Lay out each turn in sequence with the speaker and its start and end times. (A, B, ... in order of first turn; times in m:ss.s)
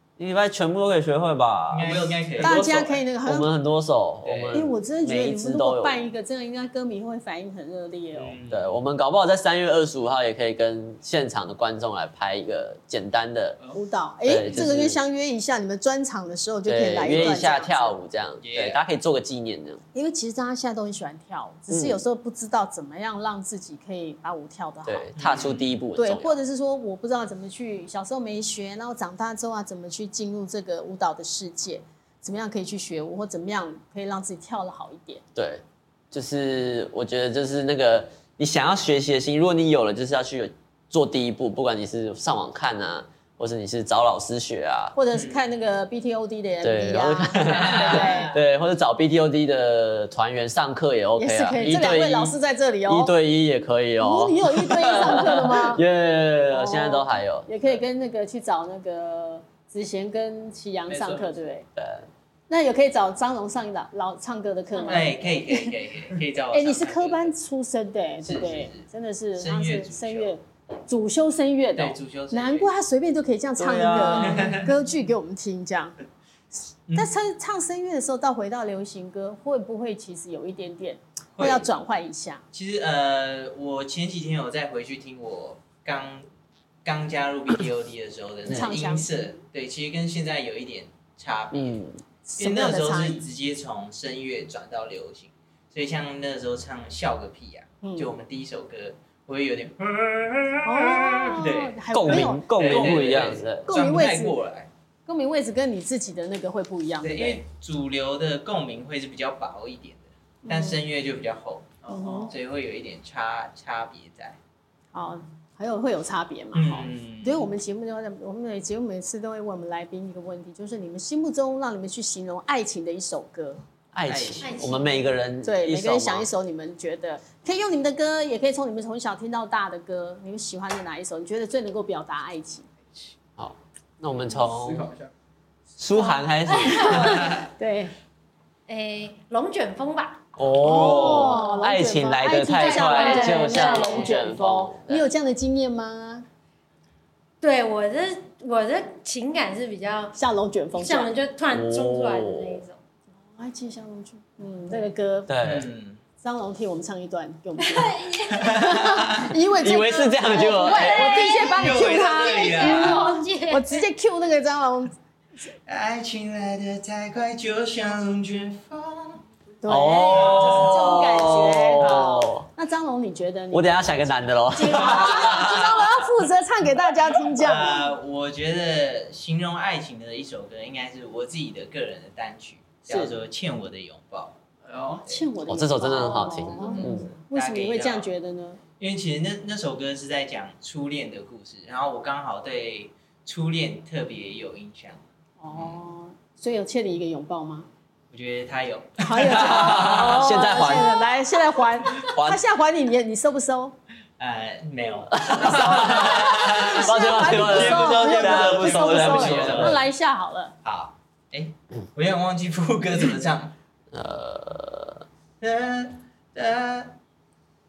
0:00.2-0:02.2 A
0:01.7-0:02.7 B
0:02.4-0:03.0 C
0:02.4-0:03.5 D
0:03.2-0:06.0 A
0:04.2-0:04.6 B
0:04.5-0:08.4 D
0:08.2-0:08.7 B
0:08.5-0:13.6 A
0:13.7-0:18.0 D
0:14.2-0:15.0 A
0:16.6-0:19.8 A
0:18.4-0:18.8 B
0:19.9-0:25.1 D
0:21.7-0:22.0 A
0:24.8-0:26.4 A
0:25.2-0:25.7 B
0:26.0-0:35.2 D
0:35.3-0:45.0 A
0:44.9-0:48.4 D
0:45.1-0:45.4 B
0:46.6-0:52.3 A
0:51.2-0:53.1 D
0:52.9-0:57.5 A
0:54.0-0:55.8 D
0:56.5-1:01.7 D
1:00.9-1:01.4 C
1:01.8-1:02.0 A
1:02.5-1:05.7 D
1:04.7-1:05.2 E
1:04.9-1:07.3 B
1:06.5-1:16.0 D
1:08.2-1:10.3 B
1:11.7-1:12.7 B
1:13.6-1:14.6 A
1:14.2-1:14.7 B
1:16.9-1:22.4 D
1:21.4-1:21.7 B
1:22.5-1:26.3 B
1:26.8-1:31.8 B
1:28.4-1:29.1 D
1:31.5-1:32.0 A
1:32.2-1:33.2 D
1:32.4-1:44.7 B
1:37.8-1:38.2 D
1:40.6-1:42.9 D
1:41.9-1:43.7 A
1:42.7-1:43.3 C
1:43.6-1:44.4 D
1:45.0-1:47.4 D
1:47.0-1:54.4 B
1:50.4-1:50.8 D
1:51.8-1:52.3 C
1:51.9-1:52.3 D
1:54.9-2:03.6 D
1:56.5-1:57.5 B
2:03.9-2:06.3 A
2:04.1-2:04.7 B
2:04.4-2:05.1 E
2:05.4-2:12.6 D
2:13.4-2:14.9 A
2:14.3-2:15.1 C
2:15.8-2:17.3 A
2:16.5-2:17.4 E
2:16.7-2:17.9 D
2:18.7-2:21.6 E
2:20.4-2:25.1 A
2:20.6-2:26.2 D
2:22.5-2:24.2 E
2:27.4-2:30.1 E
2:30.1-2:31.1 D
2:30.7-2:32.8 E
2:31.5-2:32.6 A
2:33.2-2:35.3 D
2:35.3-2:35.7 A
2:35.4-2:36.0 B
2:36.2-2:44.9 D
2:37.6-2:38.7 E
2:38.3-2:39.3 B
2:39.5-2:41.3 A
2:40.4-2:43.8 E
2:41.3-2:43.1 B
2:45.6-2:49.2 B
2:49.6-2:57.8 D
2:49.7-2:52.5 A
2:50.0-2:51.2 B
2:51.8-2:52.1 B
2:53.5-2:55.9 A
2:54.8-2:55.6 B
2:57.2-3:04.4 B
3:02.9-3:03.2 D
3:04.6-3:05.1 C
3:05.0-3:08.6 D
3:05.5-3:07.1 A
3:06.4-3:08.1 B
3:08.8-3:15.0 B
3:15.4-3:17.7 D
3:15.5-3:15.8 B
3:18.1-3:20.4 B
3:19.0-3:23.8 D
3:19.3-3:20.9 A
3:22.1-3:22.4 A
3:24.2-3:29.8 B
3:25.1-3:29.8 A
3:25.4-3:30.5 D
3:29.0-3:29.7 C
3:30.6-3:33.5 B
3:33.9-3:35.0 A
3:35.4-3:37.0 B